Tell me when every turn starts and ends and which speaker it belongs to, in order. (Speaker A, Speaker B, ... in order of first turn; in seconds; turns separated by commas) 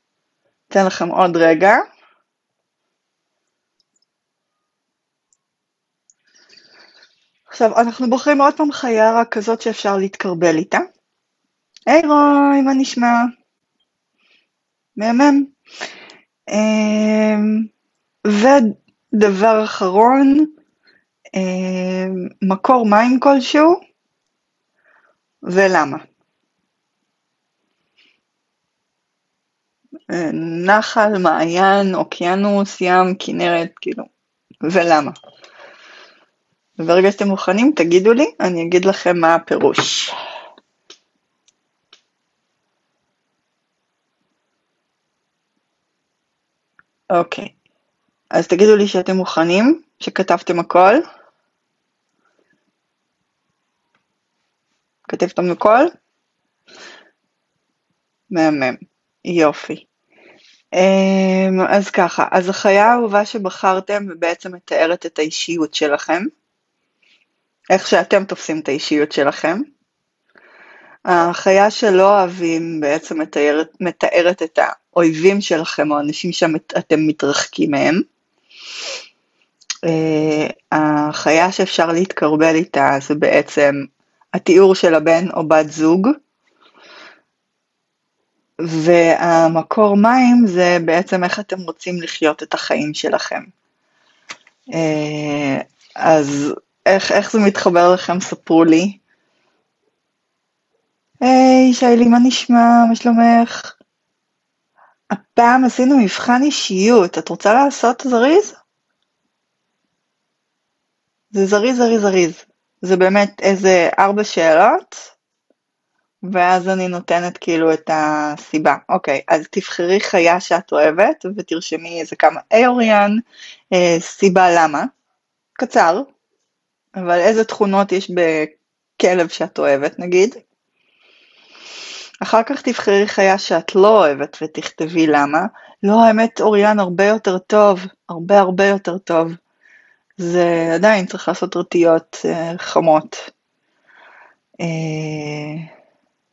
Speaker A: 0.7-1.8, Speaker A: 7.5-10.8, Speaker A: 11.9-13.3, Speaker A: 15.0-15.5, Speaker A: 16.5-17.6, Speaker A: 18.3-20.5, Speaker A: 21.4-23.8, Speaker A: 25.4-26.0, Speaker A: 30.1-34.1, Speaker A: 34.6-35.1, Speaker A: 36.8-40.1, Speaker A: 47.1-47.5, Speaker A: 48.3-51.0, Speaker A: 55.1-55.9, Speaker A: 58.3-59.9, Speaker A: 60.8-66.3, Speaker A: 67.7-69.7, Speaker A: 71.1-78.0, Speaker A: 79.8-83.8, Speaker A: 84.3-86.1, Speaker A: 88.6-93.5, Speaker A: 94.7-99.0, Speaker A: 101.2-103.8, Speaker A: 105.1-108.5, Speaker A: 111.3-115.1, Speaker A: 116.2-123.2, Speaker A: 123.7-124.9, Speaker A: 125.6-126.1, Speaker A: 127.0-130.4, Speaker A: 132.2-139.4, Speaker A: 140.2-143.3, Speaker A: 144.6-145.6